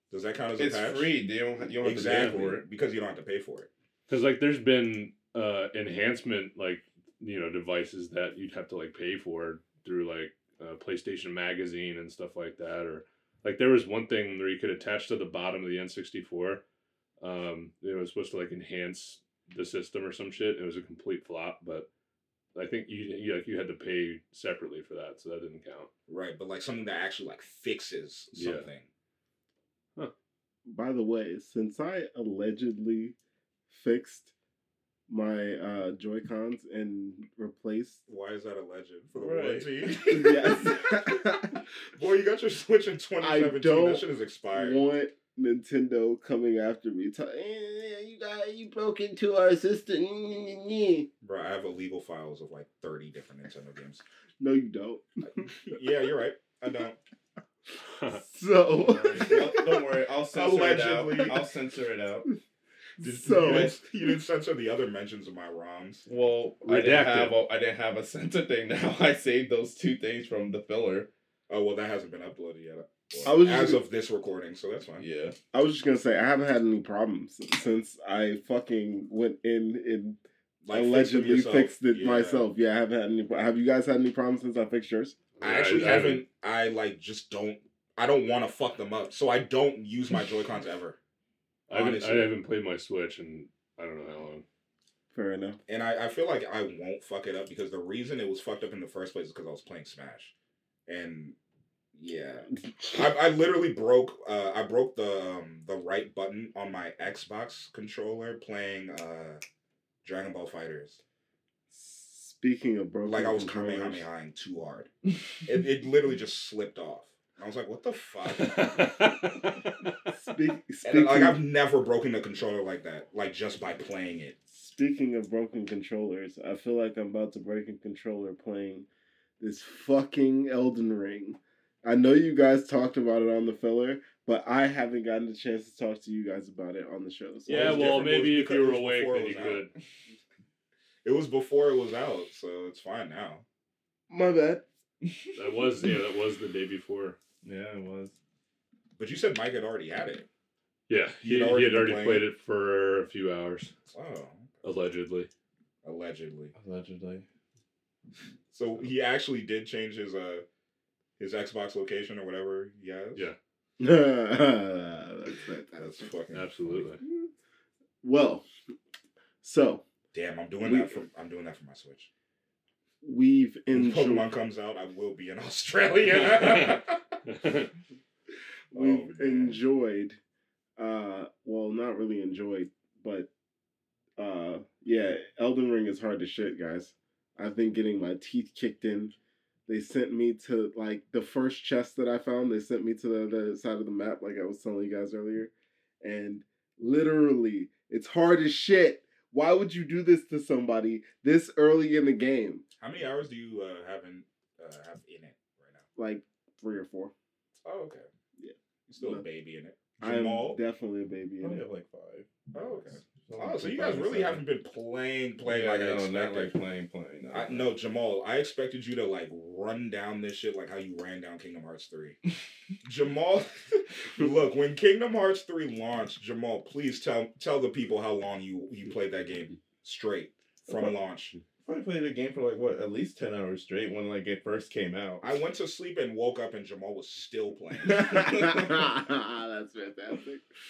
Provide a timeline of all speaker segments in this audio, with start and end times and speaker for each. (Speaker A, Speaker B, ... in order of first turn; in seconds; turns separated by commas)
Speaker A: 0.1-1.1, Speaker B: 0.6-2.6, Speaker A: 1.8-3.7, Speaker C: 2.1-2.3, Speaker C: 4.1-16.6, Speaker C: 17.2-21.9, Speaker C: 22.5-25.9, Speaker A: 26.1-28.9, Speaker C: 28.3-28.7, Speaker D: 30.6-33.1, Speaker D: 33.7-34.3, Speaker D: 35.1-38.0, Speaker A: 38.1-44.8, Speaker B: 39.1-40.0, Speaker D: 40.1-41.6, Speaker D: 43.2-51.1, Speaker A: 51.2-54.0, Speaker D: 54.4-55.4, Speaker A: 55.4-57.0, Speaker C: 57.8-58.2, Speaker D: 58.1-59.8, Speaker C: 58.9-59.2, Speaker B: 59.2-62.3, Speaker A: 59.2-59.7, Speaker A: 60.3-61.5, Speaker D: 63.0-63.8, Speaker A: 63.0-66.0, Speaker B: 63.4-63.7, Speaker B: 66.0-71.1, Speaker C: 66.7-67.3, Speaker A: 71.5-75.0, Speaker D: 73.2-73.8, Speaker B: 75.0-75.3, Speaker D: 75.5-80.2, Speaker A: 80.6-82.5, Speaker D: 80.7-85.2, Speaker C: 85.4-86.2, Speaker A: 85.4-91.0, Speaker A: 91.7-92.3, Speaker C: 91.7-94.4, Speaker D: 95.1-95.6, Speaker A: 95.7-100.3, Speaker A: 100.9-101.3, Speaker A: 101.9-109.4, Speaker A: 110.0-111.0, Speaker D: 111.7-114.0, Speaker A: 113.0-114.9, Speaker A: 115.4-118.9, Speaker C: 118.4-120.1, Speaker D: 120.1-121.4, Speaker A: 120.8-124.3, Speaker D: 124.5-128.9, Speaker D: 129.4-138.1, Speaker C: 137.5-139.7, Speaker A: 137.5-139.7, Speaker A: 141.0-143.4, Speaker D: 144.1-144.7, Speaker B: 145.0-145.9, Speaker C: 145.3-147.2, Speaker B: 147.4-148.2, Speaker A: 149.0-150.3, Speaker C: 150.9-153.7, Speaker A: 151.2-152.2, Speaker A: 153.9-154.5, Speaker C: 154.6-155.3, Speaker A: 155.8-156.5, Speaker B: 156.5-157.2, Speaker A: 158.5-160.4, Speaker A: 161.2-163.3, Speaker D: 163.8-166.1, Speaker A: 165.8-166.9, Speaker C: 166.3-167.0, Speaker D: 168.0-168.4, Speaker D: 169.4-169.8, Speaker A: 170.1-172.1, Speaker D: 170.6-171.0, Speaker D: 173.0-174.3, Speaker A: 173.7-177.0, Speaker C: 177.3-177.7, Speaker A: 178.7-179.5, Speaker D: 178.7-180.2, Speaker D: 180.8-183.3, Speaker D: 184.2-189.1, Speaker D: 189.7-202.6, Speaker A: 202.8-205.8, Speaker D: 205.9-207.1, Speaker A: 207.6-208.1, Speaker D: 208.4-209.2, Speaker A: 208.9-210.6, Speaker D: 210.0-211.6, Speaker B: 211.4-214.4, Speaker A: 212.5-216.5, Speaker B: 215.4-217.7, Speaker A: 217.3-222.2, Speaker A: 222.8-231.3, Speaker B: 230.7-230.9, Speaker B: 231.6-235.4, Speaker A: 235.2-238.6, Speaker D: 237.9-240.4, Speaker B: 238.0-238.9